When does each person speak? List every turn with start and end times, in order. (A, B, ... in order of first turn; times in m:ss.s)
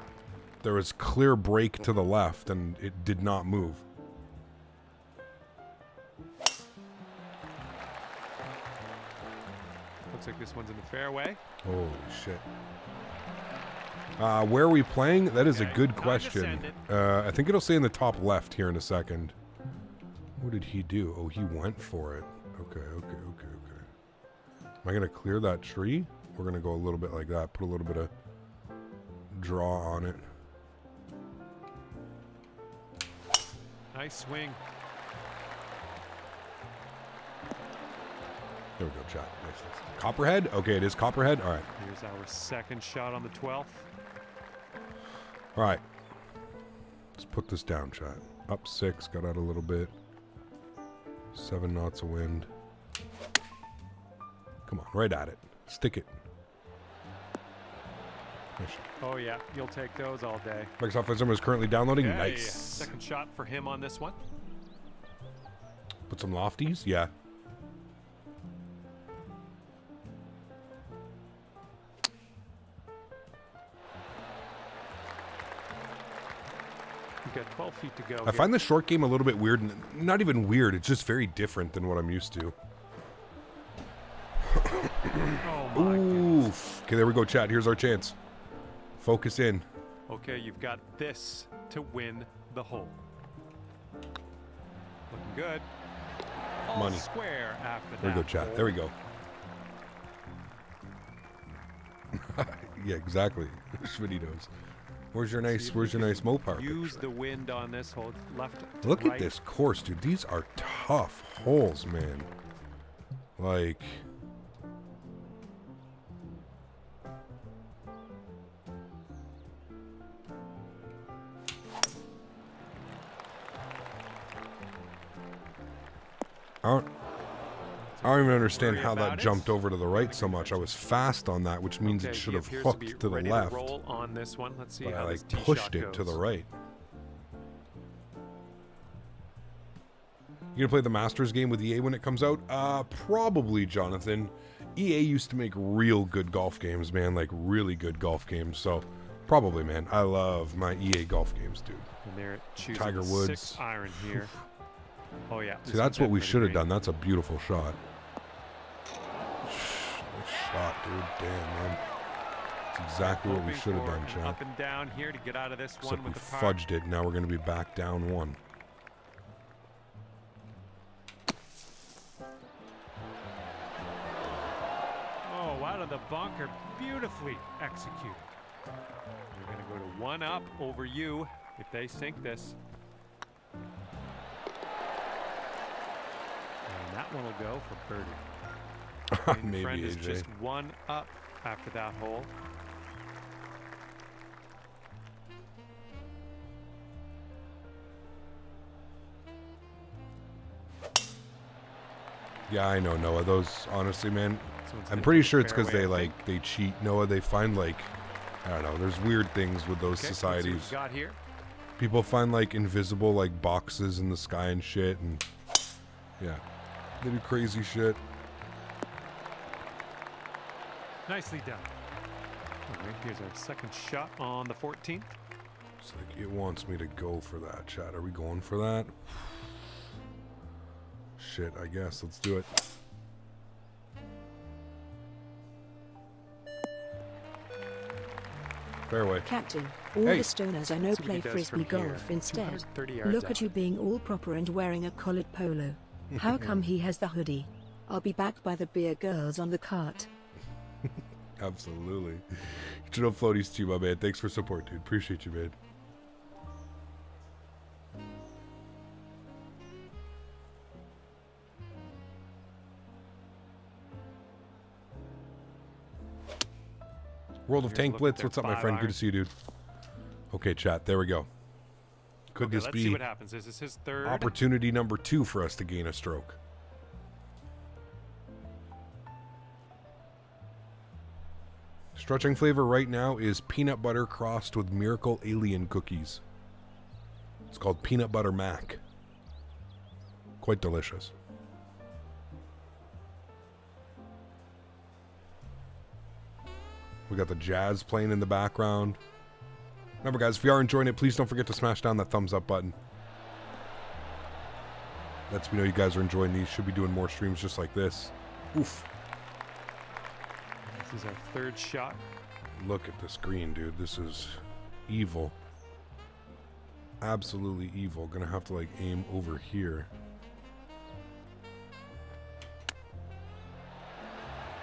0:00.6-0:03.8 A
0:10.1-0:11.4 B
0:11.6-0:12.4 A
0:14.2-0:19.4 A
0:15.5-0:16.8 B
0:20.4-0:23.9 A
0:24.8-0:28.1 A
0:29.3-0:30.3 A
0:33.9-0:34.6 B
0:38.8-0:41.7 A
0:41.8-0:43.9 B
0:45.6-0:45.8 A
0:47.2-0:49.9 A
0:51.3-0:52.5 A
0:54.7-0:56.1 A
0:58.6-0:58.9 A
0:59.0-1:00.8 B
1:00.8-1:02.9 A
1:02.0-1:04.2 B
1:06.1-1:07.1 A
1:17.2-1:18.5 B
1:18.2-1:22.6 A
1:24.4-1:28.2 A
1:25.4-1:26.5 B
1:29.0-1:29.7 A
1:30.1-1:33.0 B
1:35.1-1:35.7 B
1:36.7-1:38.8 B
1:36.7-1:37.1 A
1:38.0-1:38.9 A
1:42.1-1:44.5 A
1:45.1-1:47.1 A
1:45.4-1:49.4 B
1:48.8-1:52.3 A
1:53.4-1:54.0 A
2:06.6-2:06.9 A
2:08.0-2:10.8 B
2:08.0-2:13.8 A
2:11.8-2:16.2 B
2:14.8-2:16.5 A
2:20.6-2:31.9 A
2:32.0-2:34.4 B
2:32.7-2:34.3 A
2:35.3-2:36.7 B
2:35.6-2:37.8 A
2:39.4-2:41.8 A
2:42.7-2:44.4 A
2:43.0-2:46.6 B
2:45.8-2:48.4 A
2:55.2-2:58.3 B
2:59.3-3:02.6 B
3:06.7-3:08.2 B
3:09.1-3:10.3 A
3:09.2-3:12.3 B
3:22.5-3:30.7 A
3:24.6-3:26.2 B
3:29.9-3:31.2 B
3:31.8-3:35.3 A
3:37.0-3:38.0 A
3:41.1-3:41.7 B
3:42.7-3:45.2 B
3:45.8-3:49.6 A
3:51.2-3:52.5 A
3:58.9-3:59.3 A
3:59.2-4:10.1 C
4:00.0-4:00.3 A
4:00.8-4:03.5 B
4:11.4-4:15.6 A
4:27.5-4:29.3 A
4:27.6-4:29.0 B
4:30.3-4:31.3 A
4:32.3-4:33.0 A
4:32.4-4:34.4 B
4:34.0-4:36.4 A
4:42.0-4:46.2 A
4:47.5-4:48.8 A
4:50.4-4:51.1 A
4:57.1-4:59.0 A
5:00.0-5:02.8 A
5:05.3-5:08.9 A
5:10.8-5:12.0 B
5:12.6-5:15.4 A
5:17.0-5:19.9 A